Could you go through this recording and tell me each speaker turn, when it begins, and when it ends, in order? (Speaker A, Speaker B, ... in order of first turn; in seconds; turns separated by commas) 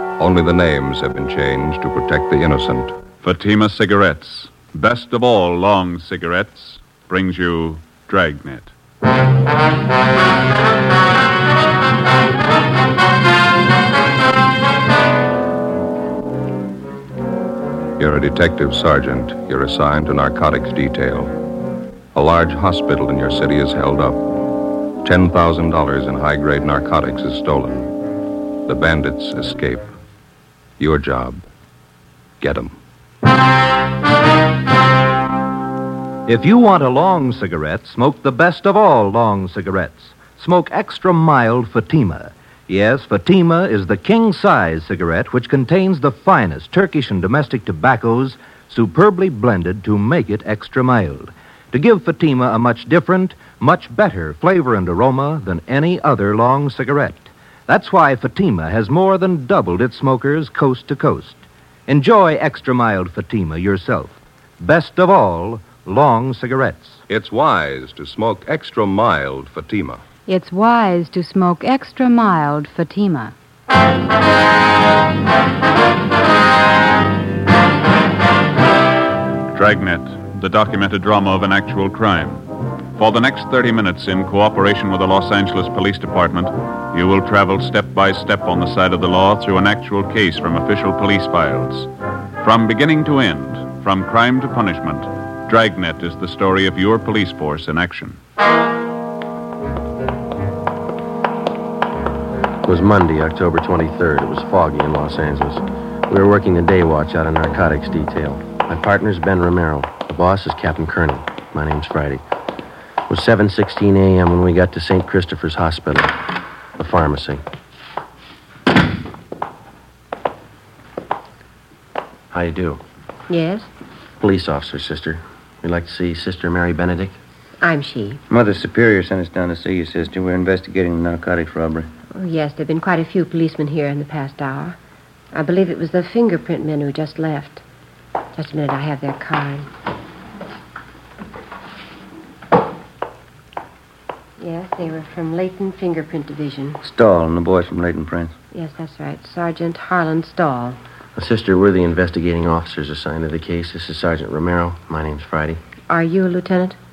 Speaker A: 0.2-2.9, Speaker B: 3.2-8.7, Speaker A: 18.0-21.3, Speaker A: 22.1-24.3, Speaker A: 25.0-27.9, Speaker A: 28.6-29.9, Speaker A: 30.8-31.4, Speaker A: 32.4-32.7, Speaker C: 36.3-67.0, Speaker A: 67.1-70.0, Speaker D: 70.3-73.3, Speaker B: 79.5-82.4, Speaker B: 83.0-91.9, Speaker B: 92.4-98.2, Speaker E: 102.6-112.2, Speaker E: 113.1-116.2, Speaker E: 116.8-117.4, Speaker E: 122.3-122.8, Speaker F: 123.3-123.7, Speaker E: 124.2-127.2, Speaker F: 127.6-128.2, Speaker G: 128.3-131.9, Speaker F: 132.1-134.8, Speaker F: 135.3-137.6, Speaker F: 138.3-139.7, Speaker F: 144.4-146.8, Speaker G: 146.8-148.3, Speaker F: 148.5-150.8, Speaker E: 151.2-155.6, Speaker F: 155.9-156.8